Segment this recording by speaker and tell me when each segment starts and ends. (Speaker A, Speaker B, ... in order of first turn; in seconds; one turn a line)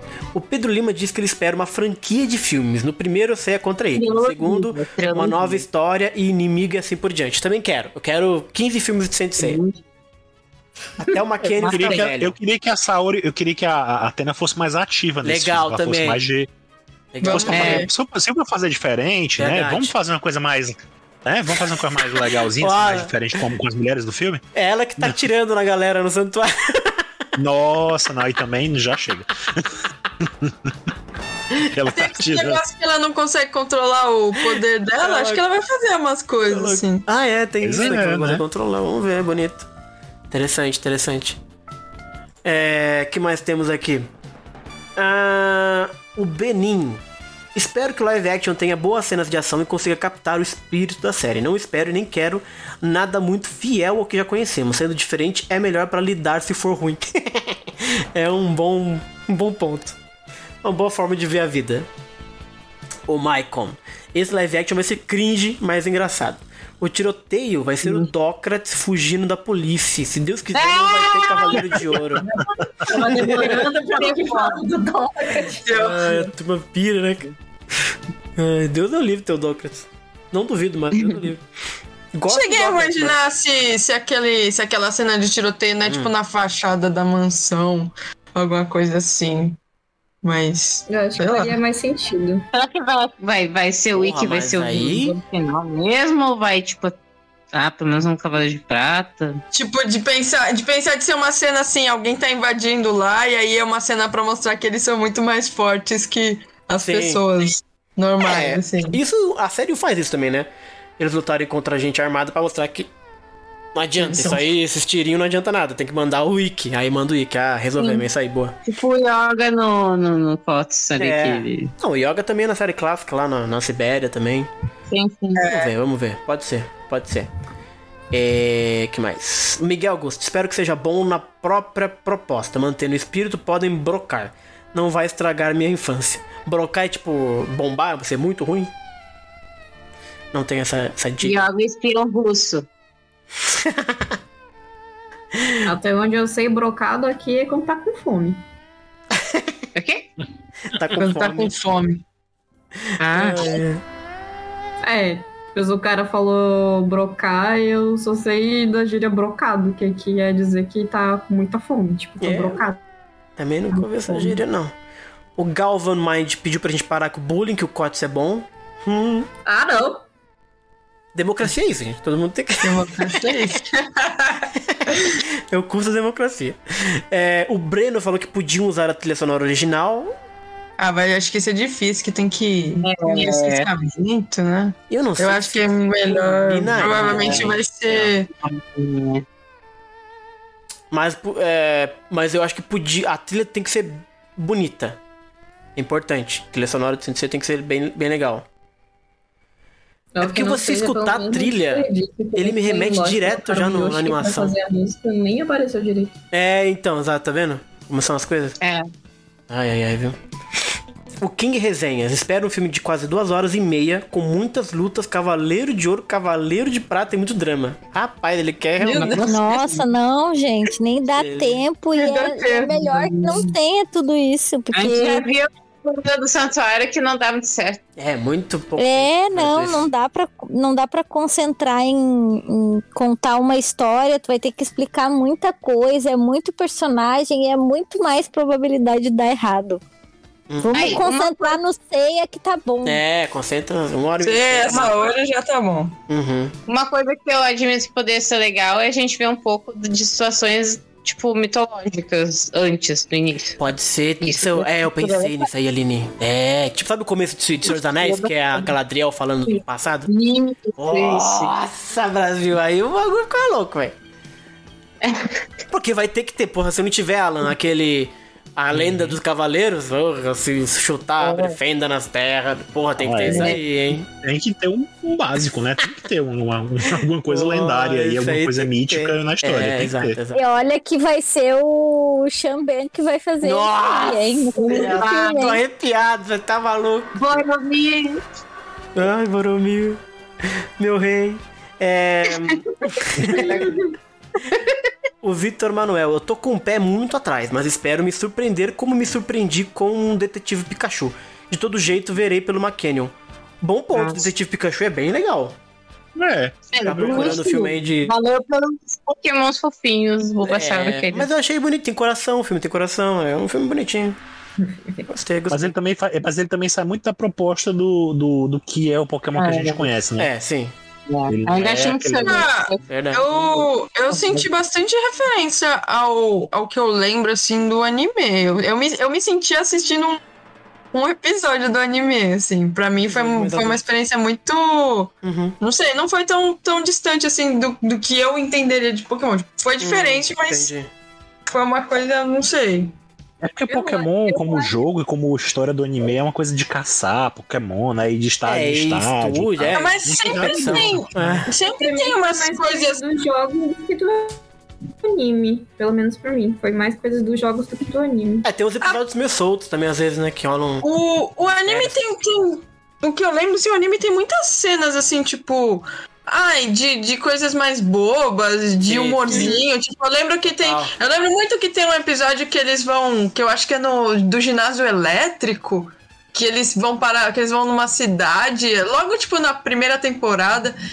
Speaker A: 0.3-9.6
Speaker B: 4.0-5.6
Speaker B: 9.4-9.8
Speaker A: 11.0-12.3
Speaker B: 11.1-12.0
Speaker C: 11.7-16.5
Speaker A: 15.2-16.2
Speaker A: 17.1-17.9
Speaker D: 17.2-17.9
Speaker C: 17.2-24.4
Speaker B: 17.5-17.8
Speaker A: 19.4-20.0
Speaker A: 21.7-23.1
Speaker A: 24.6-27.0
Speaker C: 27.4-30.8
Speaker C: 31.7-32.6
Speaker D: 31.9-37.0
Speaker A: 35.0-35.4
Speaker A: 36.5-39.7
Speaker C: 37.6-38.4
Speaker A: 40.3-41.4
Speaker A: 42.5-44.1
Speaker A: 45.0-47.0
Speaker A: 47.5-60.0
Speaker A: 60.6-61.9
Speaker A: 63.1-72.2
Speaker B: 70.5-74.5
Speaker E: 72.9-75.7
Speaker A: 73.1-73.8
Speaker D: 75.7-76.3
Speaker A: 75.7-77.3
Speaker A: 78.4-81.4
Speaker A: 82.1-83.2
Speaker D: 82.3-89.6
Speaker A: 85.8-86.1
Speaker D: 90.2-91.5
Speaker E: 90.9-92.5
Speaker B: 92.5-97.0
Speaker A: 93.9-95.2
Speaker B: 97.5-99.4
Speaker D: 99.5-109.0
Speaker A: 106.8-107.2
Speaker A: 108.2-112.9
Speaker A: 113.8-118.6
Speaker D: 114.0-114.4
Speaker B: 118.7-121.7
Speaker A: 121.0-124.5
Speaker B: 124.9-125.5
Speaker D: 125.4-125.7
Speaker A: 125.5-127.3
Speaker A: 128.1-138.7
Speaker A: 140.3-141.4
Speaker B: 141.2-142.7
Speaker A: 143.5-144.1
Speaker E: 145.7-148.4
Speaker A: 149.1-149.5
Speaker B: 149.8-150.1
Speaker A: 150.7-151.6
Speaker D: 150.9-152.0
Speaker B: 153.0-153.6
Speaker A: 153.1-153.8
Speaker E: 154.8-162.8
Speaker A: 162.2-162.6
Speaker A: 163.4-164.7
Speaker E: 163.7-164.4
Speaker A: 165.4-169.3
Speaker E: 169.5-170.1
Speaker A: 171.1-173.4
Speaker D: 172.6-174.5
Speaker A: 174.7-180.1
Speaker D: 180.8-188.3
Speaker B: 182.8-183.7
Speaker A: 184.9-188.1
Speaker B: 186.8-187.5
Speaker B: 188.4-189.2
Speaker A: 190.9-195.0
Speaker A: 195.8-198.5
Speaker E: 200.1-206.2
Speaker A: 200.2-204.5
Speaker A: 206.3-208.6
Speaker B: 208.6-208.9
Speaker A: 209.5-210.2
Speaker A: 211.2-219.2
Speaker D: 218.8-219.3
Speaker B: 218.9-219.8
Speaker F: 219.2-225.3
Speaker A: 221.2-221.6
Speaker D: 222.0-223.4
Speaker B: 224.7-227.8
Speaker A: 228.0-229.9
Speaker F: 228.8-239.8
Speaker A: 240.5-241.0
Speaker F: 240.6-243.0
Speaker B: 240.7-241.3
Speaker D: 241.1-241.5
Speaker A: 242.8-245.1
Speaker D: 244.2-245.9
Speaker A: 246.1-246.6
Speaker B: 246.7-253.6
Speaker A: 253.6-260.1
Speaker B: 254.2-255.5
Speaker B: 257.7-258.7
Speaker B: 259.5-261.5
Speaker A: 260.8-263.9
Speaker B: 265.0-265.4
Speaker A: 265.7-274.1
Speaker C: 268.7-269.2
Speaker B: 271.2-271.6
Speaker C: 273.0-280.2
Speaker B: 273.3-273.6
Speaker A: 277.3-280.4
Speaker F: 280.3-285.6
Speaker A: 283.4-287.4
Speaker B: 284.6-285.4
Speaker B: 287.2-288.2
Speaker A: 288.9-293.7
Speaker E: 293.4-293.7
Speaker A: 295.2-305.6
Speaker B: 303.9-304.2
Speaker C: 306.2-307.4
Speaker B: 306.7-311.3
Speaker A: 306.9-308.1
Speaker A: 310.5-314.2
Speaker E: 314.6-315.1
Speaker A: 315.1-315.7
Speaker C: 315.5-320.3
Speaker B: 319.4-319.9
Speaker A: 320.2-320.7
Speaker B: 321.1-322.8
Speaker C: 321.3-322.5
Speaker D: 322.2-330.2
Speaker A: 322.9-323.2
Speaker B: 324.1-324.4
Speaker D: 330.9-340.7
Speaker A: 333.0-333.8
Speaker A: 335.2-335.6
Speaker A: 339.8-340.9
Speaker D: 341.5-342.9
Speaker C: 343.4-351.4
Speaker E: 343.7-344.8
Speaker A: 348.5-351.5
Speaker D: 349.7-353.0
Speaker E: 351.8-354.4
Speaker E: 355.0-358.5
Speaker A: 358.4-360.9
Speaker D: 360.8-380.8
Speaker A: 361.6-361.9
Speaker A: 368.9-369.6
Speaker A: 370.5-370.9